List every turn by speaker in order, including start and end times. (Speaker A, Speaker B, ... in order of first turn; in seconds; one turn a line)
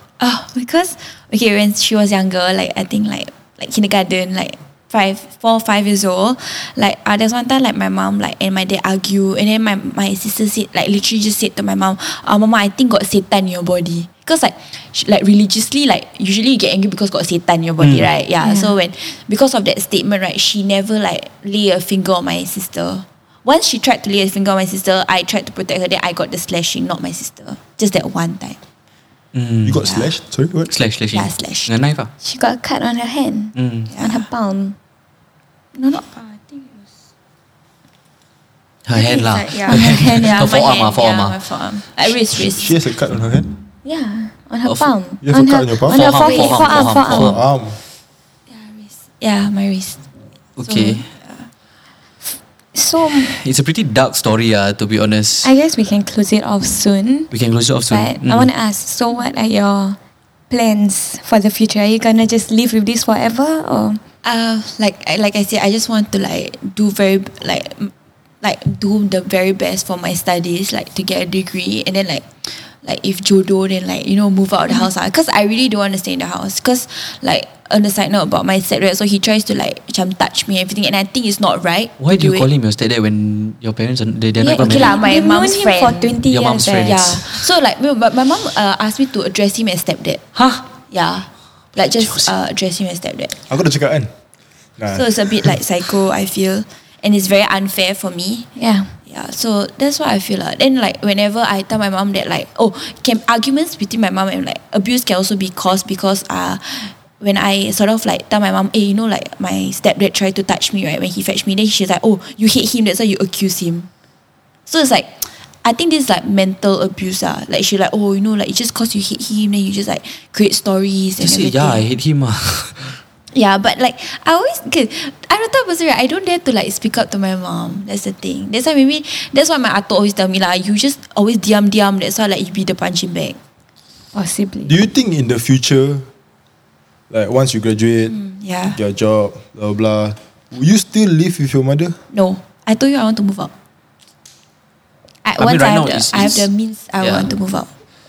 Speaker A: 0.2-28.6
Speaker B: 17.8-18.1
Speaker C: 18.4-18.8
Speaker B: 29.3-29.9
Speaker D: 29.6-30.7
Speaker A: 29.9-30.1
Speaker B: 30.7-32.1
Speaker A: 31.1-31.7
Speaker C: 32.2-34.8
Speaker B: 33.5-33.9
Speaker A: 33.9-34.3
Speaker A: 35.8-36.9
Speaker B: 38.9-41.4
Speaker A: 38.9-42.8
Speaker C: 39.7-40.5
Speaker D: 42.3-43.5
Speaker C: 43.9-47.4
Speaker D: 45.2-46.1
Speaker B: 45.9-47.4
Speaker A: 46.1-46.9
Speaker D: 47.0-47.8
Speaker A: 48.5-50.0
Speaker B: 50.6-51.1
Speaker A: 50.6-51.5
Speaker C: 52.7-53.4
Speaker B: 53.2-55.5
Speaker C: 55.4-57.3
Speaker B: 57.3-58.5
Speaker C: 57.9-60.0
Speaker C: 60.5-64.0
Speaker A: 64.2-82.5
Speaker B: 82.0-85.0
Speaker C: 84.4-87.0
Speaker A: 84.5-86.2
Speaker B: 86.3-87.5
Speaker A: 86.9-90.2
Speaker B: 90.3-90.7
Speaker A: 90.8-93.4
Speaker B: 92.0-92.3
Speaker D: 93.5-94.1
Speaker D: 94.8-95.5
Speaker A: 94.9-98.5
Speaker C: 98.6-98.9
Speaker A: 99.1-113.9
Speaker A: 114.7-121.8
Speaker B: 121.2-123.0
Speaker A: 123.3-133.4
Speaker C: 134.1-134.7
Speaker D: 134.7-136.1
Speaker D: 137.1-138.2
Speaker A: 138.1-138.8
Speaker D: 138.7-142.0
Speaker A: 142.1-143.5
Speaker A: 145.2-147.7
Speaker B: 145.4-146.5
Speaker B: 147.0-147.3